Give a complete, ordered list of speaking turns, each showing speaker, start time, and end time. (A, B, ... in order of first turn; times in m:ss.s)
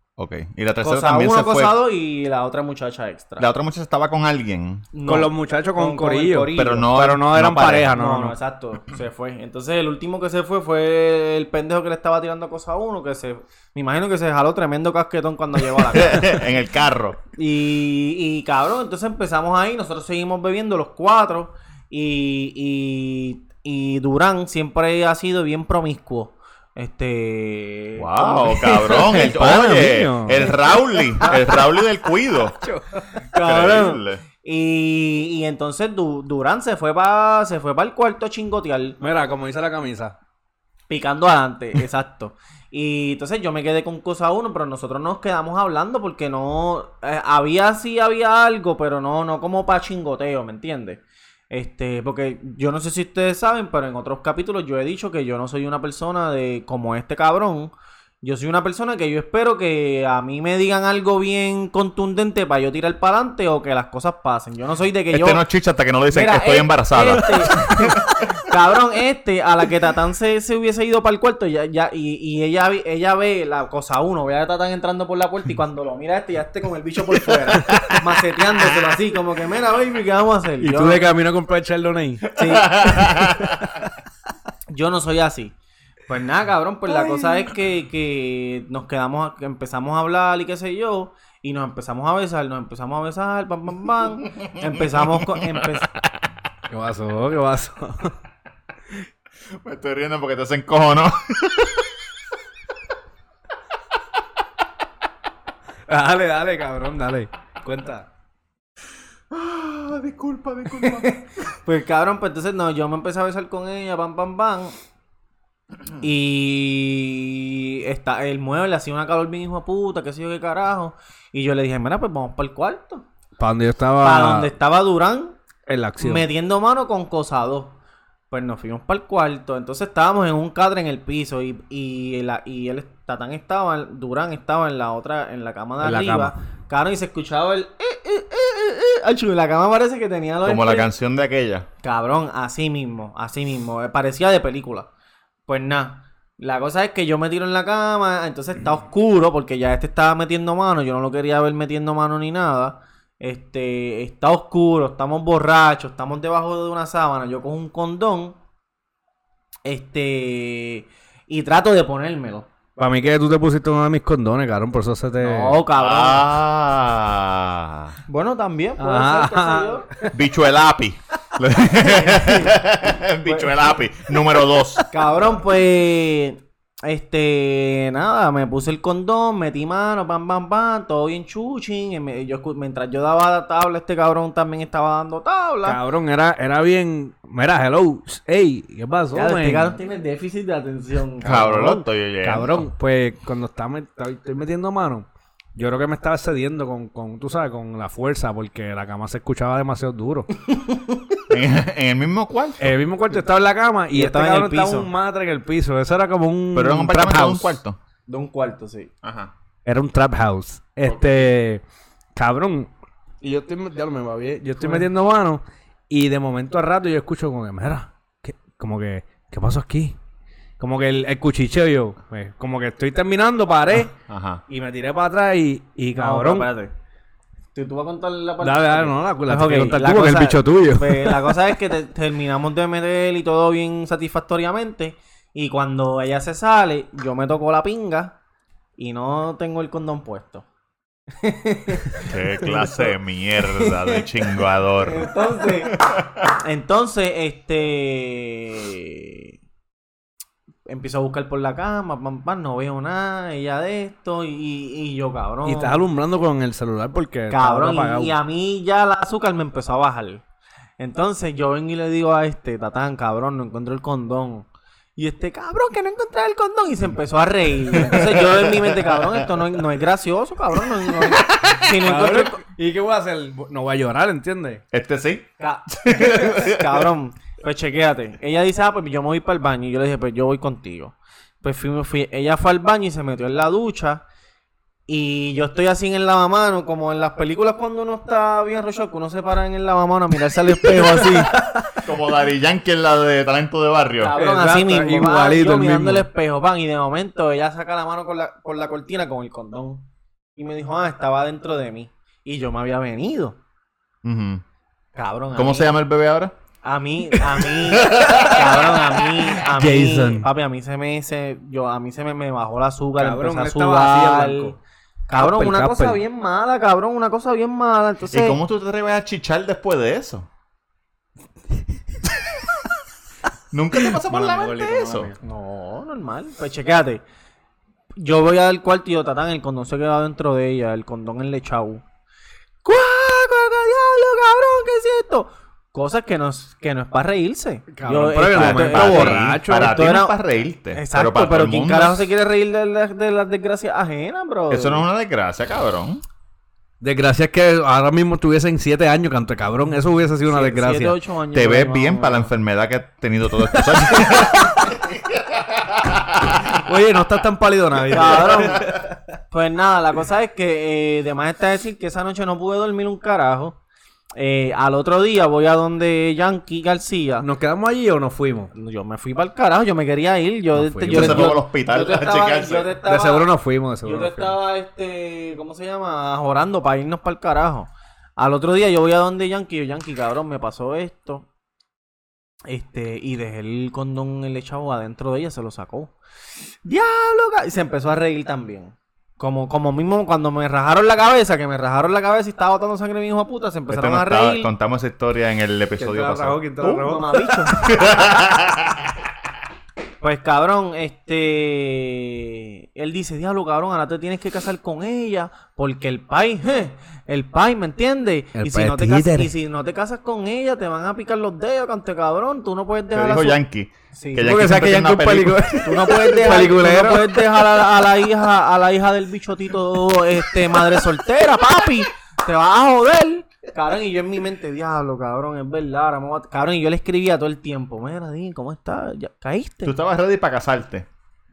0:00.2-0:01.8 A
0:00.8-0:03.5 B
0:03.4-0:04.9 A
0:04.9-0:07.0 B
0:05.1-0:08.4 C
0:06.5-0:07.9 A
0:07.9-0:16.5 B
0:15.8-0:17.2 A
0:17.4-0:29.3 B
0:28.0-0:32.6 A
0:29.0-0:30.5 C
0:31.2-0:31.5 B
0:33.1-0:39.0 B
0:33.3-0:34.2 A
0:39.0-0:40.2 C
0:40.9-1:05.4 B
1:05.1-1:08.2 A
1:06.1-1:21.0 B
1:17.6-1:18.0 C
1:20.6-1:22.3 C
1:22.3-1:23.1 B
1:22.4-1:23.6 A
1:23.0-1:23.9 C
1:24.7-1:25.5 B
1:26.1-1:35.9 B
1:34.4-1:35.7 A
1:36.7-1:38.1 C
1:39.5-1:41.9 A
1:45.9-1:48.1 C
1:49.3-1:51.2 A
1:50.8-1:54.7 B
1:56.0-2:03.0 B
2:03.4-2:04.5 C
2:04.0-2:05.4 B
2:05.7-2:06.3 C
2:06.0-2:07.8 B
2:08.3-2:20.9 B
2:15.8-2:16.4 C
2:20.4-2:21.7 A
2:21.8-2:24.9 B
2:25.5-2:38.4 B
2:39.6-2:42.5 B
2:42.8-2:45.6 C
2:45.2-2:46.4 B
2:45.8-2:48.0 A
2:48.1-2:50.0 B
2:48.8-2:50.1 C
2:50.1-2:54.8 A
2:51.8-2:52.6 B
2:53.2-2:53.6 B
2:54.9-3:05.8 B
3:05.6-3:09.7 C
3:09.1-3:11.9 B
3:11.2-3:12.7 A
3:12.2-3:20.3 C
3:20.5-3:20.9 B
3:21.3-3:22.6 A
3:22.6-3:27.6 C
3:23.9-3:24.9 B
3:26.5-3:27.8 A
3:28.1-3:28.9 B
3:29.0-3:29.3 A
3:29.6-3:31.6 C
3:32.2-3:32.7 C
3:33.2-3:40.0 C
3:34.6-3:34.9 B
3:40.6-3:43.9 C
3:44.1-3:44.4 A
3:44.5-3:46.5 C
3:46.0-3:46.7 B
3:47.6-3:58.2 B
3:48.4-3:51.4 C
3:58.8-4:00.4 B
4:01.2-4:04.3 B
4:02.0-4:06.2 A
4:04.8-4:09.3 B
4:10.7-4:15.8 B
4:15.4-4:18.2 C
4:17.3-4:20.2 B
4:20.8-4:32.4 B
4:27.9-4:29.0 A
4:31.6-4:34.6 C
4:34.7-4:36.9 A
4:35.4-4:44.0 B
4:44.9-4:51.4 B
4:50.6-4:51.8 C
4:51.8-4:54.2 A
4:54.0-4:59.8 B
4:54.2-4:56.1 C
5:00.4-5:03.4 B
5:04.0-5:04.4 A
5:04.9-5:05.8 B
5:05.3-5:06.3 A
5:06.6-5:14.6 B
5:07.2-5:08.4 C
5:07.8-5:08.4 A
5:09.3-5:10.3 C
5:13.0-5:14.6 C
5:15.1-5:18.4 B
5:15.1-5:16.0 C
5:18.1-5:20.3 A
5:23.5-5:25.1 A
5:24.0-5:25.2 C
5:25.2-5:27.0 B
5:28.0-5:31.8 B
5:32.6-5:44.9 B
5:37.7-5:39.8 C
5:38.3-5:42.1 A
5:44.5-5:46.0 A
5:46.8-5:50.9 C
5:50.3-5:52.3 B
5:51.3-5:56.6 A
5:53.6-5:54.6 C
5:56.5-5:58.9 C
5:57.9-5:58.8 B
5:59.3-6:03.6 B
6:04.1-6:07.3 B
6:07.2-6:08.5 C
6:08.5-6:13.3 B
6:10.6-6:11.3 C
6:10.9-6:12.7 A
6:12.9-6:14.4 C
6:13.8-6:21.3 B
6:22.5-6:25.9 B
6:26.6-6:34.5 B
6:33.7-6:36.4 A
6:35.8-6:37.5 C
6:36.6-6:37.8 B
6:37.6-6:38.9 A
6:40.0-6:53.4 B
6:48.4-6:49.3 C
6:52.9-6:55.4 A
6:53.9-6:54.4 B
6:54.2-6:57.4 C
6:55.6-7:09.8 B
7:00.4-7:00.8 C
7:09.6-7:10.9 A